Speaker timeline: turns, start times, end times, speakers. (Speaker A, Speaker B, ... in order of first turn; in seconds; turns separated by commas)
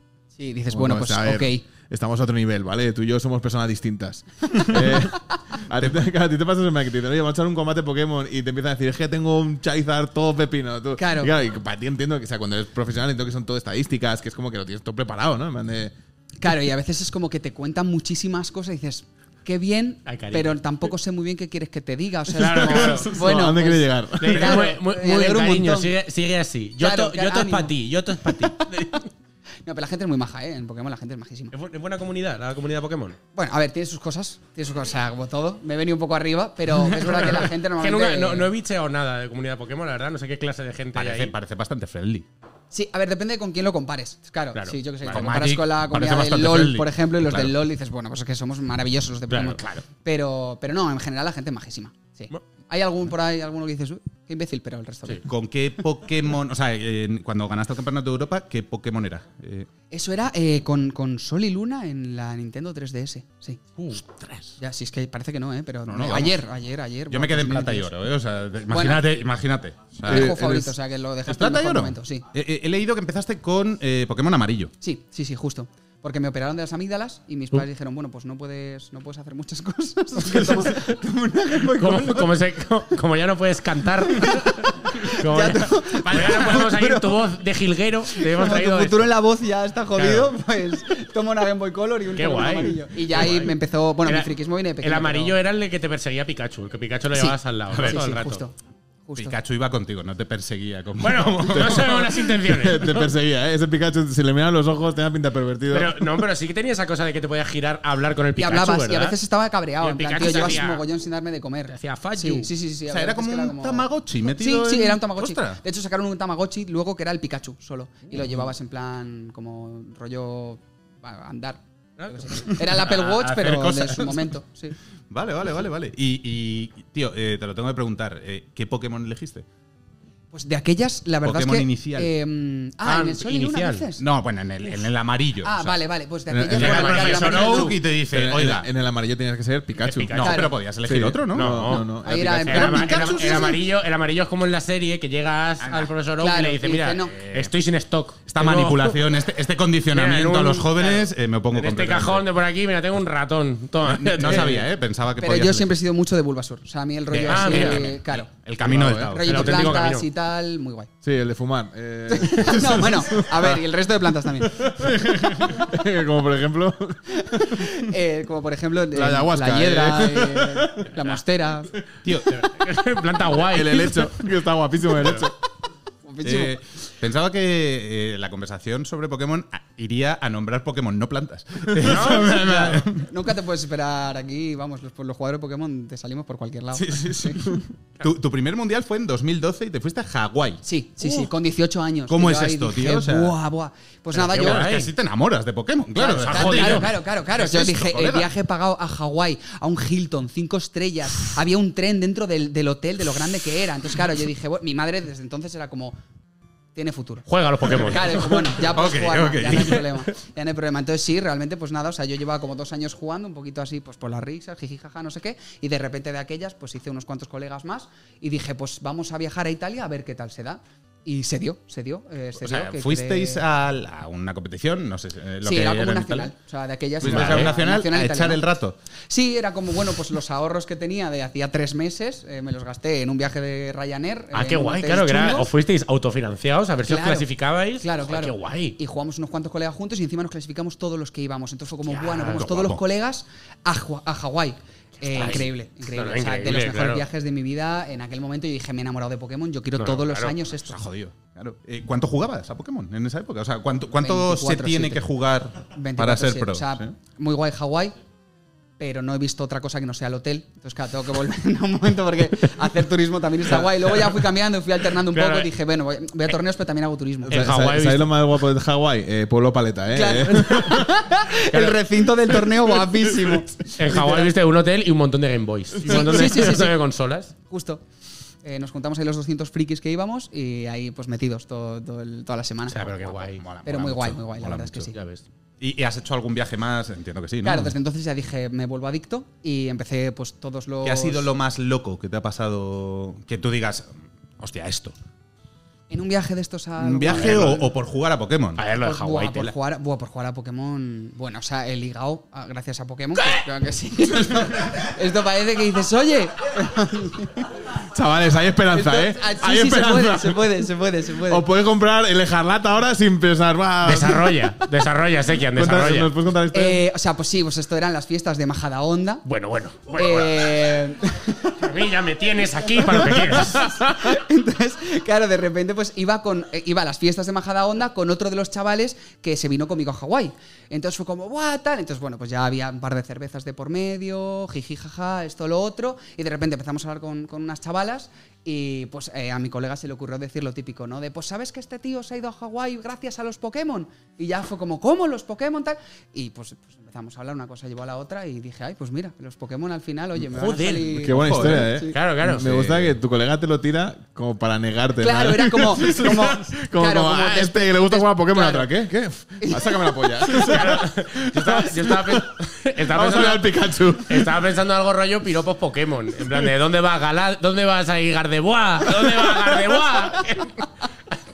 Speaker A: 0.4-1.6, Speaker B: 0.7-15.9, Speaker A: 11.0-11.3, Speaker A: 16.4-26.0, Speaker C: 20.1-20.6, Speaker C: 22.3-23.2, Speaker B: 22.6-24.5, Speaker C: 24.2-29.0, Speaker A: 26.8-27.8, Speaker A: 28.3-29.0, Speaker A: 29.7-31.5, Speaker C: 31.5-33.2, Speaker A: 33.4-38.5, Speaker C: 37.0-41.3, Speaker D: 41.0-42.3, Speaker A: 42.7-55.3, Speaker C: 44.5-45.3, Speaker D: 45.1-47.5, Speaker C: 49.3-49.9, Speaker D: 55.2-59.7, Speaker A: 59.9-63.8, Speaker A: 64.6-67.9, Speaker D: 65.9-66.4, Speaker D: 67.1-70.7, Speaker A: 68.7-69.2, Speaker A: 70.1-72.2, Speaker B: 70.1-70.7, Speaker D: 71.3-74.7, Speaker A: 74.8-82.3, Speaker C: 81.7-89.1, Speaker A: 84.1-87.2, Speaker D: 86.1-86.5, Speaker A: 88.2-95.4, Speaker C: 90.0-90.3, Speaker C: 92.1-94.3, Speaker C: 94.8-98.4, Speaker A: 97.1-98.5, Speaker D: 97.7-98.0, Speaker A: 99.1-99.4, Speaker D: 99.2-102.0, Speaker C: 101.0-103.1, Speaker B: 101.6-106.3, Speaker C: 105.7-109.2, Speaker A: 108.4-124.8, Speaker C: 109.8-110.8, Speaker C: 111.7-112.5, Speaker D: 112.9-115.6, Speaker C: 122.0-122.6, Speaker D: 122.7-124.3, Speaker D: 125.1-129.5, Speaker A: 130.3-134.1, Speaker D: 131.2-132.1, Speaker C: 132.8-133.9, Speaker D: 134.0-135.8, Speaker A: 135.4-137.8, Speaker B: 136.3-136.7, Speaker D: 136.5-138.7, Speaker C: 136.5-137.8, Speaker B: 138.1-142.6, Speaker C: 139.8-140.4, Speaker D: 140.1-141.6, Speaker A: 140.2-140.5, Speaker C: 141.3-149.0, Speaker A: 141.9-143.5, Speaker D: 142.5-143.6, Speaker D: 145.6-145.9, Speaker A: 146.1-147.2, Speaker D: 148.3-152.3, Speaker C: 149.9-154.6, Speaker D: 153.8-155.8, Speaker A: 155.2-158.3, Speaker D: 157.1-159.8, Speaker C: 157.2-158.0, Speaker B: 158.6-159.2, Speaker A: 159.1-160.9, Speaker C: 159.3-160.1, Speaker B: 161.0-163.6, Speaker A: 162.1-164.7, Speaker B: 164.4-167.9, Speaker A: 167.2-171.7, Speaker B: 168.9-170.9, Speaker D: 172.0-172.3, Speaker C: 172.3-174.2, Speaker B: 173.4-175.4, Speaker A: 176.1-176.6, Speaker D: 176.2-183.1, Speaker C: 181.8-182.4, Speaker A: 182.3-187.4, Speaker D: 186.7-191.3, Speaker A: 190.6-194.8, Speaker D: 192.1-193.4, Speaker D: 194.1-198.3, Speaker C: 194.2-194.9, Speaker A: 195.9-206.0, Speaker C: 196.2-196.9, Speaker A: 206.8-223.4, Speaker C: 207.3-208.5, Speaker D: 208.5-209.8, Speaker C: 209.5-209.8, Speaker D: 222.4-226.3, Speaker A: 225.4-228.4, Speaker D: 227.0-228.8, Speaker C: 227.1-227.5, Speaker A: 229.1-235.5, Speaker C: 234.3-238.8, Speaker A: 236.9-237.3, Speaker A: 237.8-250.8, Speaker C: 241.9-242.4, Speaker D: 242.4-242.8, Speaker C: 245.0-247.1, Speaker C: 249.8-250.3, Speaker D: 250.6-256.9, Speaker A: 254.0-255.1, Speaker A: 255.7-257.9, Speaker A: 258.8-267.5, Speaker C: 265.1-265.5, Speaker B: 267.3-270.9, Speaker C: 267.3-268.1, Speaker A: 269.9-274.3, Speaker C: 270.3-270.8, Speaker C: 271.5-271.8, Speaker C: 273.8-277.3, Speaker A: 275.9-276.8, Speaker A: 277.5-277.8, Speaker A: 278.4-282.9, Speaker C: 282.7-283.4, Speaker D: 282.8-284.9, Speaker A: 283.6-284.9, Speaker C: 284.9-285.2, Speaker D: 285.6-287.8, Speaker A: 287.4-291.3, Speaker D: 290.8-294.9, Speaker A: 295.9-297.7, Speaker D: 296.8-298.6, Speaker C: 297.1-297.5, Speaker C: 298.6-299.6, Speaker A: 298.7-307.5, Speaker B: 307.9-310.6, Speaker A: 308.7-311.5, Speaker B: 311.2-314.4, Speaker C: 313.8-316.1, Speaker B: 315.5-316.8, Speaker A: 316.5-319.2, Speaker C: 319.3-320.5, Speaker A: 319.9-321.6, Speaker C: 321.5-323.8, Speaker A: 323.0-351.9, Speaker C: 350.3-351.1, Speaker B: 351.0-364.4, Speaker D: 351.0-351.8, Speaker C: 351.9-352.5, Speaker D: 352.3-353.0, Speaker A: 355.0-358.7, Speaker A: 359.4-359.9, Speaker C: 360.3-363.5, Speaker C: 364.1-370.7